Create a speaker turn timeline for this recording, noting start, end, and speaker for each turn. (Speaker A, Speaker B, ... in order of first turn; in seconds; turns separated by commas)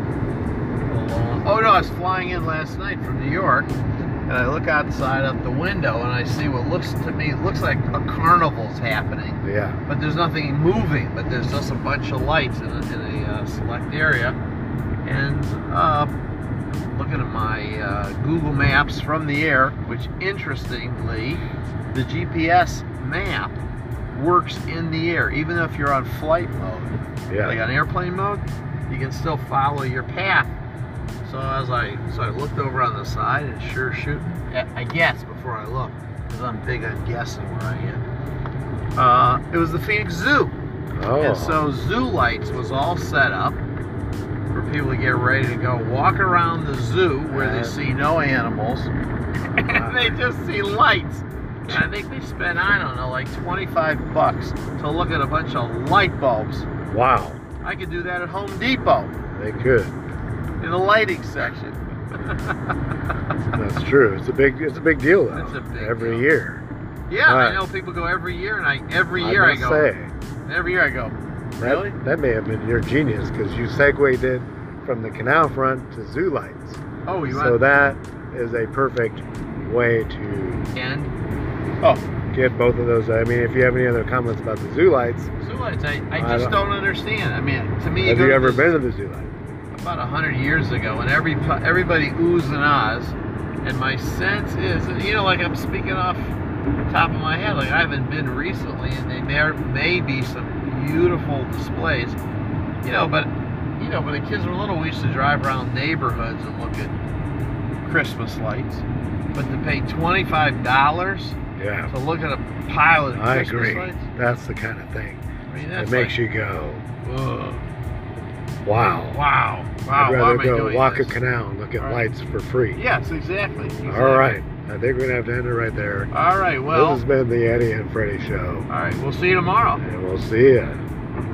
Speaker A: 0.8-3.7, Speaker A: 4.3-14.4, Speaker B: 9.4-9.8, Speaker A: 15.0-16.1, Speaker A: 16.7-23.6, Speaker A: 24.1-30.5, Speaker B: 27.3-27.6, Speaker A: 31.2-38.0, Speaker A: 39.0-40.5, Speaker B: 40.9-41.7, Speaker A: 41.2-43.6, Speaker A: 44.5-48.9, Speaker B: 47.3-47.8, Speaker A: 49.5-56.7, Speaker B: 49.5-50.2, Speaker B: 56.9-57.4, Speaker A: 57.6-59.1, Speaker B: 59.3-60.0, Speaker A: 60.6-62.7, Speaker B: 63.5-66.6, Speaker A: 65.3-66.3, Speaker A: 67.1-69.9, Speaker B: 67.2-67.6, Speaker B: 69.2-70.1, Speaker A: 70.5-72.0, Speaker B: 71.6-80.7, Speaker A: 77.0-77.7, Speaker A: 80.7-81.1, Speaker B: 82.3-85.3, Speaker A: 85.4-88.8, Speaker B: 86.1-86.6, Speaker B: 88.0-89.3, Speaker A: 89.7-96.3, Speaker A: 96.9-102.2, Speaker A: 102.8-106.9, Speaker A: 107.8-111.4, Speaker B: 111.6-111.9, Speaker A: 111.9-114.0, Speaker B: 113.1-116.8, Speaker A: 115.5-116.2, Speaker A: 117.0-117.6, Speaker B: 118.6-119.2, Speaker A: 119.1-121.2, Speaker B: 119.9-122.8, Speaker A: 121.8-122.0, Speaker A: 122.7-124.4, Speaker B: 123.8-126.1, Speaker A: 126.1-127.0, Speaker B: 126.7-128.7, Speaker A: 128.7-129.8, Speaker B: 129.8-130.8